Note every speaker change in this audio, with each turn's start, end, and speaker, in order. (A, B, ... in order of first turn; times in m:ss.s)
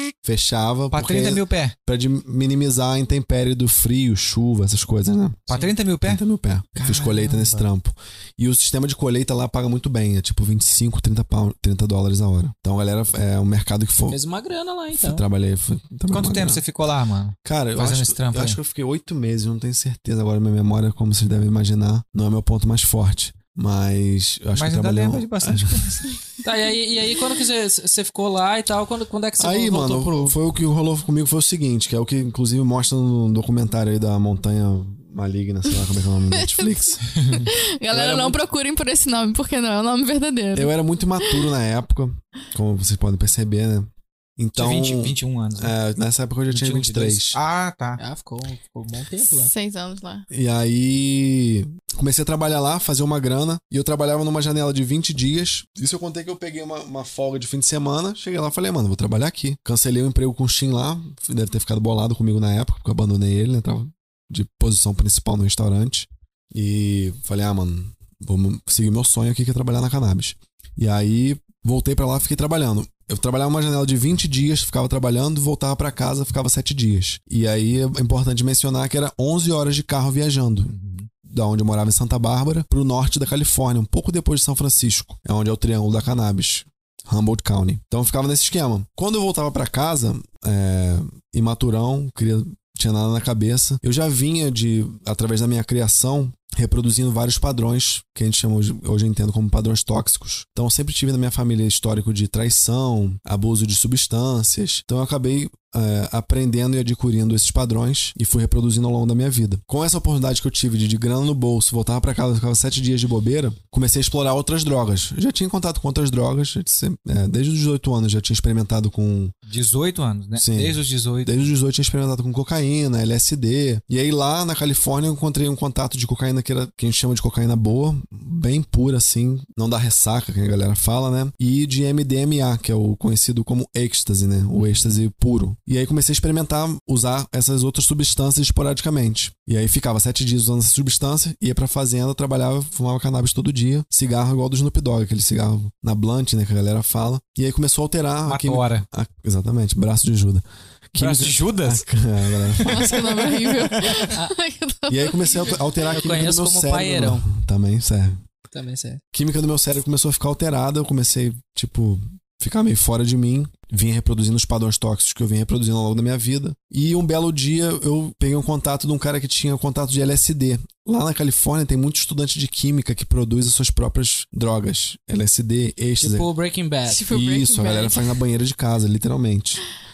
0:00.2-0:05.5 A
0:00.9-0:01.7 B
0:05.5-0:06.2 B
0:06.0-0:14.2 A
0:06.8-0:07.6 B
0:14.1-0:15.2 C
0:14.9-0:16.6 A
0:16.1-0:18.6 B
0:17.4-0:26.0 A
0:24.5-0:26.2 B
0:26.4-0:30.3 C
0:29.4-0:37.0 A
0:36.3-0:36.6 D
0:37.1-0:37.5 B
0:37.4-0:41.4 D
0:37.9-0:38.4 A
0:40.5-0:47.4 A
0:44.6-0:45.7 B
0:46.5-0:48.0 B
0:48.0-0:49.5 C
0:49.3-0:50.2 D
0:50.3-1:20.7 A
1:20.7-1:21.1 B
1:21.2-1:59.3 A
1:59.5-2:01.3 B
2:00.3-2:33.9 A
2:28.2-2:28.8 B
2:31.0-2:34.1 B
2:32.6-2:35.9 D
2:34.9-2:38.2 A
2:35.9-2:37.3 C
2:38.5-2:39.0 C
2:39.1-2:56.3 A
2:56.0-2:57.0 C
2:56.9-2:58.2 D
2:57.1-2:59.6 A